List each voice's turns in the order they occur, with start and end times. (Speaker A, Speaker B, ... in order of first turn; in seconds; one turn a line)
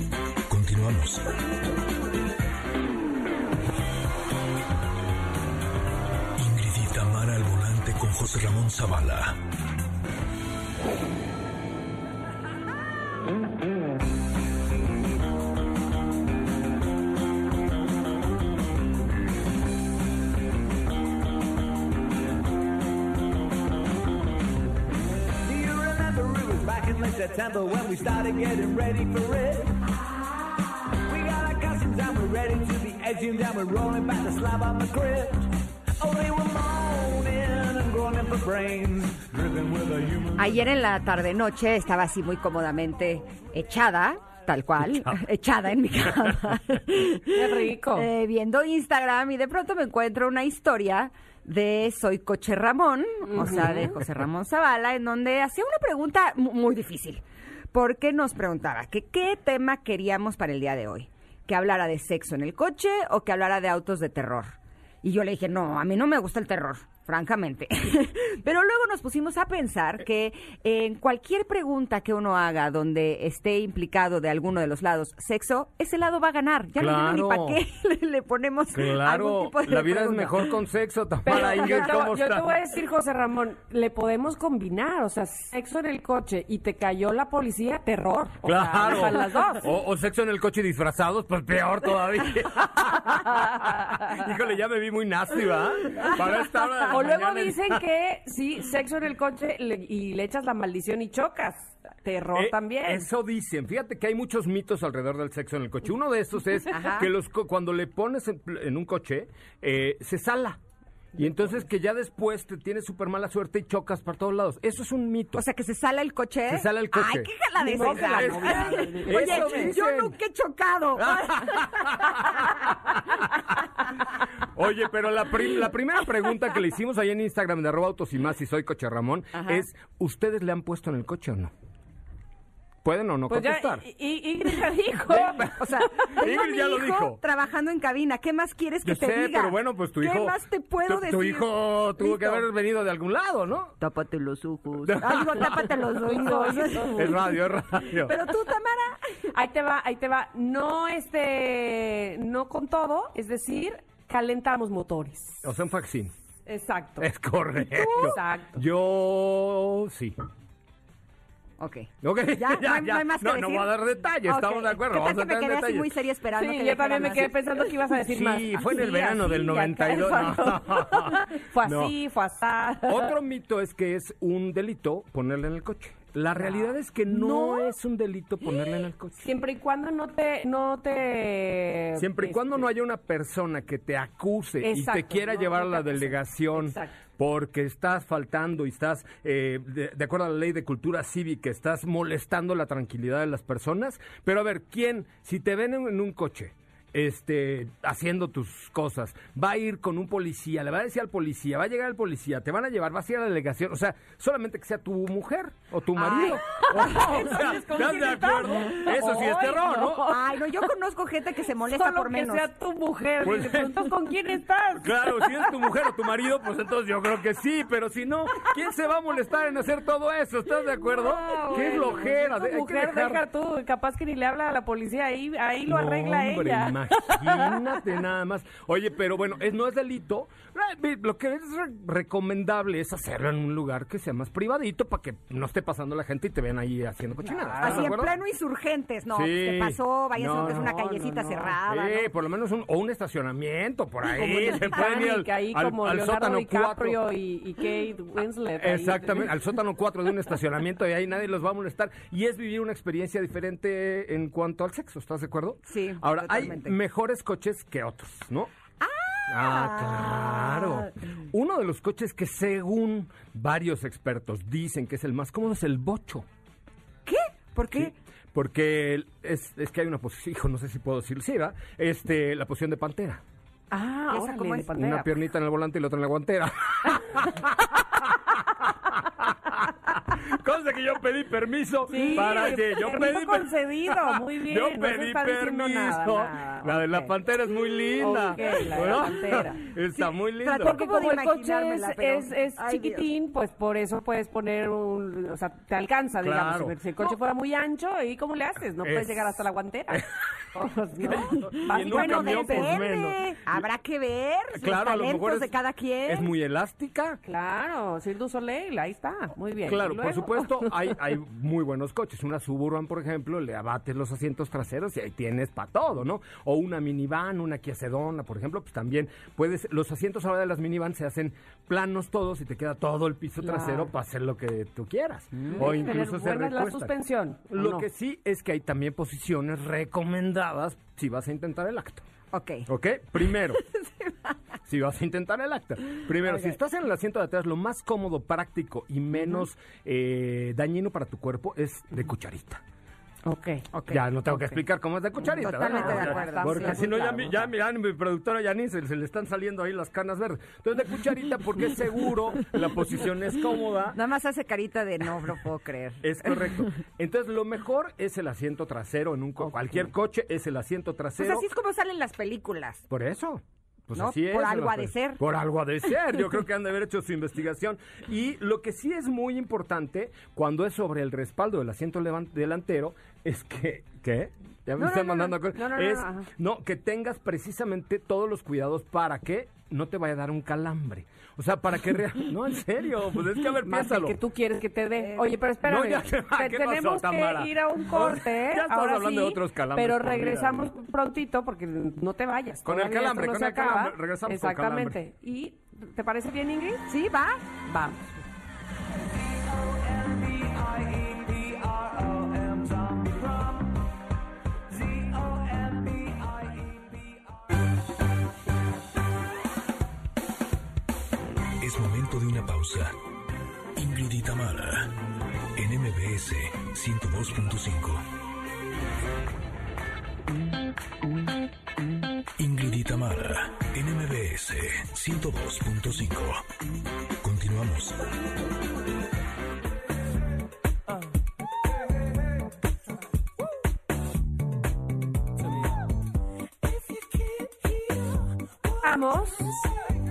Speaker A: 0.5-1.3
Speaker A: 6.4-9.4
Speaker B: 25.4-29.8
Speaker B: 31.0-40.5
Speaker C: 40.4-57.2
Speaker D: 47.3-48.1
Speaker D: 53.3-53.9
Speaker C: 57.7-80.5
Speaker E: 76.8-77.6
Speaker E: 78.7-82.6
Speaker D: 81.2-89.7
Speaker C: 81.3-81.9
Speaker E: 88.5-97.8
Speaker D: 96.9-103.1
Speaker E: 102.3-110.6
Speaker C: 106.7-107.1
Speaker E: 111.2-115.5
Speaker C: 115.4-122.5
Speaker E: 116.5-120.2
Speaker D: 117.6-119.8
Speaker E: 121.0-123.2
Speaker E: 124.4-131.5
Speaker C: 129.4-129.6
Speaker E: 132.8-133.8
Speaker D: 133.3-136.2
Speaker E: 135.1-137.2
Speaker C: 135.5-142.4
Speaker E: 138.8-143.8
Speaker C: 143.8-147.2
Speaker E: 144.8-145.7
Speaker D: 145.8-147.3
Speaker E: 146.8-148.2
Speaker C: 147.9-149.0
Speaker D: 149.3-155.5
Speaker E: 155.4-156.1
Speaker D: 156.5-157.1
Speaker E: 157.0-160.2
Speaker D: 157.6-158.6
Speaker C: 157.9-158.1
Speaker C: 161.6-163.7
Speaker E: 162.0-165.9
Speaker C: 164.2-167.4
Speaker D: 166.3-173.1
Speaker E: 168.1-172.0
Speaker E: 172.8-179.2
Speaker D: 176.4-177.7
Speaker D: 179.2-182.7
Speaker E: 182.0-210.2
Speaker D: 184.6-187.0
Speaker C: 206.0-206.4
Speaker D: 206.2-210.4
Speaker C: 210.1-212.5
Speaker D: 211.7-215.5
Speaker E: 213.2-214.0
Speaker E: 214.8-223.2
Speaker C: 221.0-222.0
Speaker D: 221.2-227.6
Speaker E: 225.7-238.2
Speaker D: 237.5-238.1
Speaker C: 237.6-242.1
Speaker E: 239.1-240.7
Speaker D: 240.4-241.6
Speaker E: 241.7-247.0
Speaker D: 244.1-249.4
Speaker E: 248.6-258.5
Speaker C: 255.7-256.8
Speaker C: 258.8-260.9
Speaker E: 259.3-266.3
Speaker C: 267.1-267.9
Speaker E: 267.7-273.2
Speaker D: 273.7-275.1
Speaker C: 274.1-274.7
Speaker E: 274.8-278.0
Speaker E: 278.6-290.8
Speaker D: 281.9-287.1
Speaker D: 288.0-289.6
Speaker C: 290.0-293.1
Speaker D: 290.6-302.9
Speaker E: 296.2-296.8
Speaker E: 298.8-300.1
Speaker E: 301.1-303.6
Speaker C: 301.9-306.3
Speaker E: 304.5-307.2
Speaker D: 307.3-310.9
Speaker E: 309.7-326.9
Speaker D: 323.4-323.9
Speaker C: 325.4-325.7
Speaker D: 325.5-327.9
Speaker E: 327.5-332.0
Speaker C: 332.3-332.7
Speaker E: 332.7-333.6
Speaker C: 333.7-334.3
Speaker E: 334.7-342.6
Speaker D: 343.2-343.7
Speaker C: 343.7-344.0
Speaker E: 343.9-354.0
Speaker C: 345.3-346.8
Speaker D: 345.6-347.5
Speaker C: 353.9-356.6
Speaker E: 356.0-361.5
Speaker C: 361.2-362.8
Speaker E: 362.9-384.2
Speaker C: 364.0-365.2
Speaker C: 374.8-375.3
Speaker D: 375.5-376.3
Speaker D: 383.6-396.9
Speaker C: 385.0-385.3
Speaker E: 385.6-390.7
Speaker E: 392.6-395.0
Speaker C: 396.9-397.4
Speaker D: 397.6-398.1
Speaker B: 399.2-403.7
Speaker B: 404.7-407.1
Speaker A: 411.6-412.9
Speaker A: 413.8-414.9
Speaker A: 415.6-418.0
Speaker A: 422.4-426.4
Speaker A: 427.2-428.0
Speaker D: 438.8-439.7